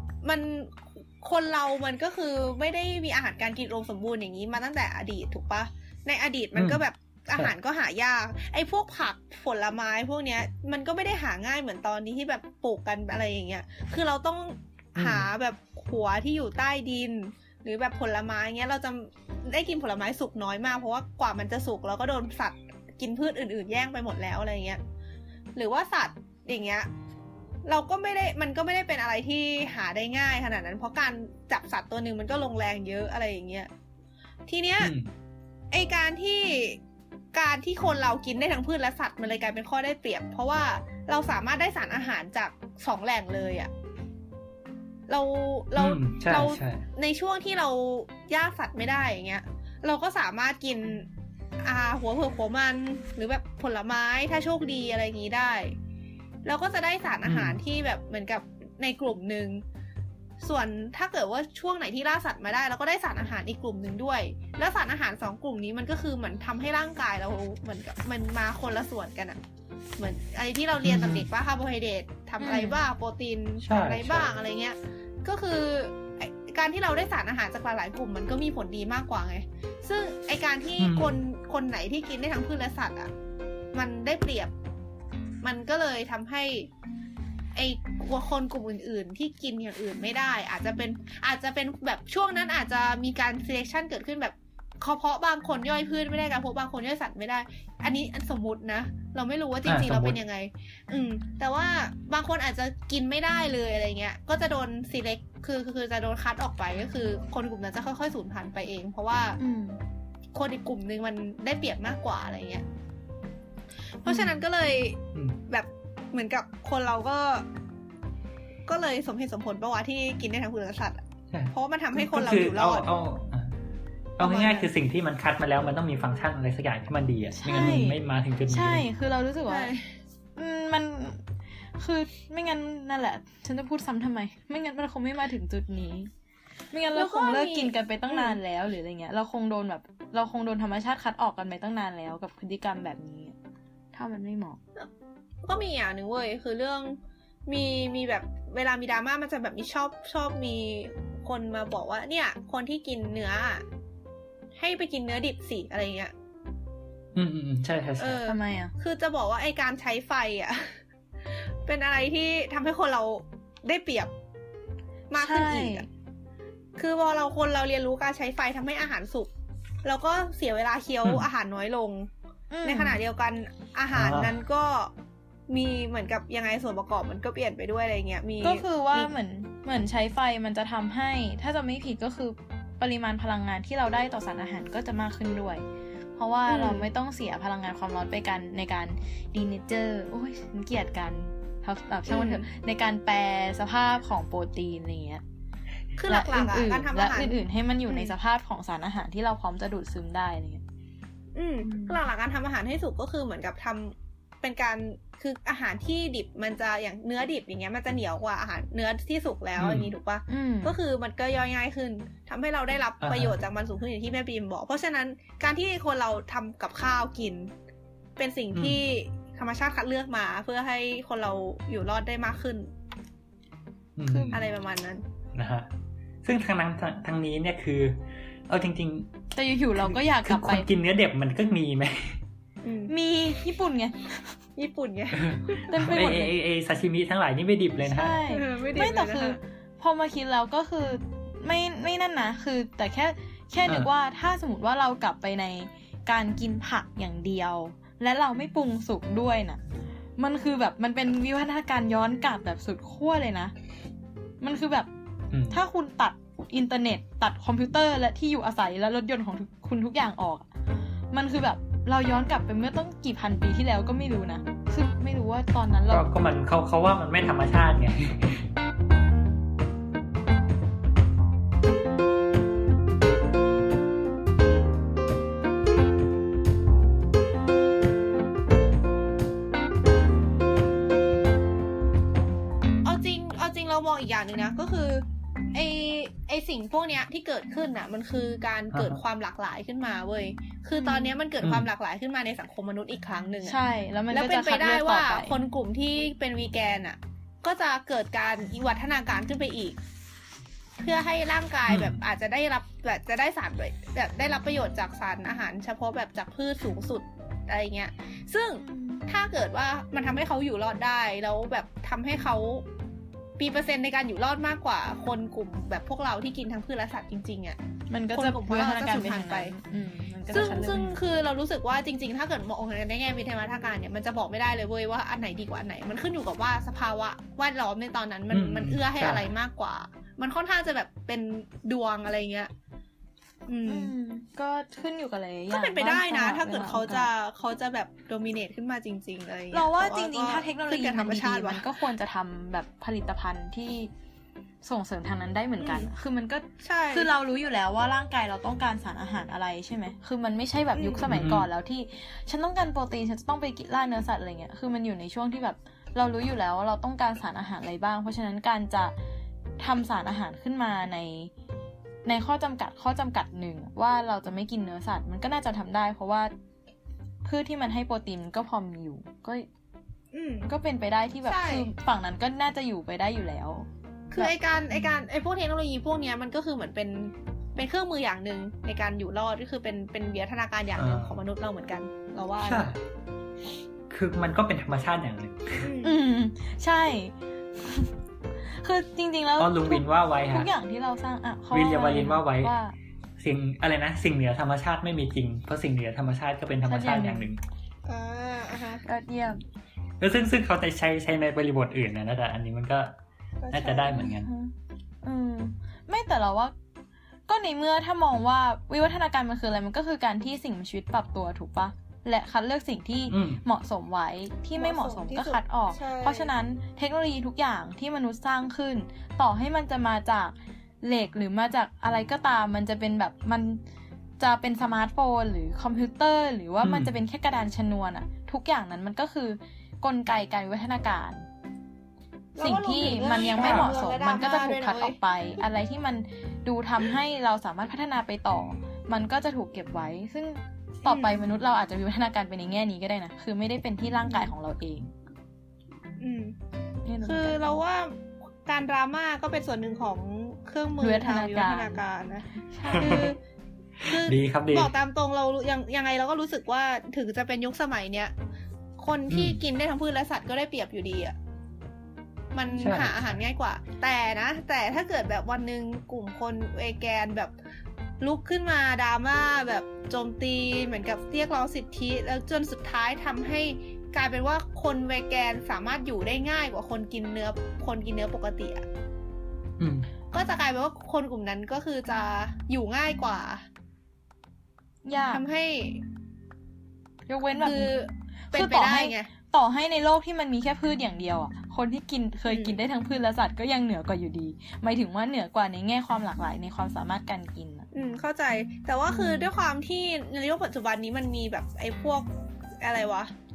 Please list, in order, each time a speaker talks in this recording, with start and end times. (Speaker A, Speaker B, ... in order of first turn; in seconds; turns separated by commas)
Speaker A: 0.2-24.8, Speaker B: 6.5-6.8, Speaker B: 15.0-15.3, Speaker A: 25.6-26.9, Speaker A: 27.7-33.7, Speaker A: 34.5-34.9, Speaker B: 34.8-35.1, Speaker A: 35.7-36.8, Speaker A: 37.3-43.7, Speaker A: 45.1-51.1, Speaker B: 45.8-46.9, Speaker A: 51.6-55.8, Speaker A: 56.5-59.6, Speaker B: 57.2-57.6, Speaker A: 60.4-69.4, Speaker A: 70.0-83.1, Speaker B: 70.8-71.3, Speaker C: 72.4-72.8, Speaker B: 73.6-74.3, Speaker B: 80.8-81.2, Speaker A: 83.7-84.5, Speaker A: 85.4-86.7, Speaker A: 87.5-109.4, Speaker B: 99.7-100.2, Speaker C: 109.4-109.8, Speaker A: 110.3-112.7, Speaker A: 114.0-117.5, Speaker C: 114.1-114.4, Speaker A: 118.7-122.9, Speaker B: 121.3-123.6, Speaker B: 124.2-128.9, Speaker A: 124.2-124.7, Speaker C: 127.3-129.7, Speaker A: 129.5-129.9, Speaker C: 130.4-136.1, Speaker C: 136.7-143.4, Speaker A: 136.9-138.4, Speaker C: 143.9-144.6, Speaker A: 145.4-153.7, Speaker A: 154.6-156.1, Speaker B: 157.2-158.2, Speaker A: 158.0-160.8, Speaker C: 158.3-158.7, Speaker A: 161.7-164.1, Speaker A: 165.1-165.9, Speaker C: 165.2-165.9, Speaker A: 166.8-169.3, Speaker A: 169.8-172.1, Speaker C: 172.5-173.0, Speaker A: 172.7-174.9, Speaker B: 173.9-174.3, Speaker A: 175.5-179.1, Speaker C: 178.4-185.6, Speaker C: 186.2-195.2, Speaker A: 186.5-186.9, Speaker A: 192.1-192.4, Speaker A: 196.0-198.1, Speaker C: 196.1-200.6, Speaker A: 201.3-217.5, Speaker C: 201.6-202.0, Speaker B: 209.6-209.9, Speaker C: 210.3-210.8, Speaker B: 213.0-213.4, Speaker A: 218.2-222.7, Speaker B: 218.5-218.8, Speaker B: 224.0-224.4, Speaker C: 224.1-224.4, Speaker A: 224.3-225.0, Speaker B: 225.3-225.7, Speaker B: 226.2-229.1, Speaker C: 229.3-230.7, Speaker B: 229.8-232.2, Speaker A: 232.6-232.9, Speaker C: 232.9-234.3, Speaker A: 234.6-235.7, Speaker B: 235.2-238.2, Speaker C: 235.7-236.3, Speaker C: 237.8-249.6, Speaker A: 238.3-239.4, Speaker C: 250.2-253.5, Speaker C: 254.4-254.9, Speaker B: 255.3-255.6, Speaker C: 255.5-260.5, Speaker C: 261.1-266.1, Speaker B: 265.9-268.5, Speaker A: 282.8-293.6, Speaker B: 288.7-289.0, Speaker C: 290.8-291.1, Speaker B: 291.4-291.7, Speaker C: 293.4-295.4, Speaker A: 294.1-299.8, Speaker A: 300.8-312.7, Speaker B: 301.7-302.0, Speaker C: 308.6-309.1, Speaker A: 313.4-317.6, Speaker C: 317.9-320.9, Speaker A: 318.1-319.5, Speaker A: 320.3-332.5, Speaker B: 328.3-329.3, Speaker A: 333.5-333.9, Speaker C: 333.6-337.1, Speaker A: 335.5-341.7, Speaker C: 339.5-343.9, Speaker C: 344.6-358.9, Speaker A: 345.6-345.9, Speaker A: 346.6-347.1, Speaker A: 350.8-351.1, Speaker B: 351.1-351.5, Speaker C: 359.6-361.3, Speaker C: 362.1-366.3, Speaker C: 367.2-369.5, Speaker A: 370.1-370.5, Speaker C: 370.5-374.8, Speaker A: 371.3-371.7, Speaker A: 374.1-382.7, Speaker B: 380.8-381.2, Speaker B: 382.4-382.8, Speaker B: 383.9-385.7, Speaker A: 385.6-386.0, Speaker C: 385.8-387.9, Speaker C: 388.4-392.8, Speaker B: 389.4-390.5, Speaker B: 391.5-392.5, Speaker B: 393.2-397.4, Speaker C: 396.6-397.3, Speaker A: 397.9-398.8, Speaker C: 398.9-399.4, Speaker B: 400.0-402.9, Speaker A: 403.4-404.1, Speaker B: 403.5-404.3, Speaker C: 403.9-406.5, Speaker C: 407.3-423.6, Speaker B: 413.1-413.4, Speaker A: 414.6-416.3, Speaker C: 424.2-431.3, Speaker B: 426.6-426.9, Speaker A: 432.4-435.0, Speaker C: 432.4-444.9, Speaker B: 433.2-433.7, Speaker A: 440.9-441.2, Speaker A: 446.0-446.4, Speaker C: 446.9-447.4, Speaker A: 447.0-453.2, Speaker C: 450.8-451.8, Speaker C: 452.4-453.1, Speaker B: 452.7-453.1, Speaker B: 453.8-454.7, Speaker A: 453.8-458.1, Speaker A: 458.8-461.1, Speaker B: 459.1-459.4, Speaker A: 462.3-467.3, Speaker B: 462.6-463.2, Speaker A: 468.0-478.6, Speaker B: 479.6-479.9, Speaker A: 480.1-483.4, Speaker C: 484.9-485.2, Speaker A: 485.1-485.8, Speaker C: 487.1-487.8, Speaker A: 487.4-489.1, Speaker C: 488.3-497.7, Speaker A: 492.3-492.6, Speaker A: 497.7-502.1, Speaker C: 498.9-499.3, Speaker A: 502.6-503.1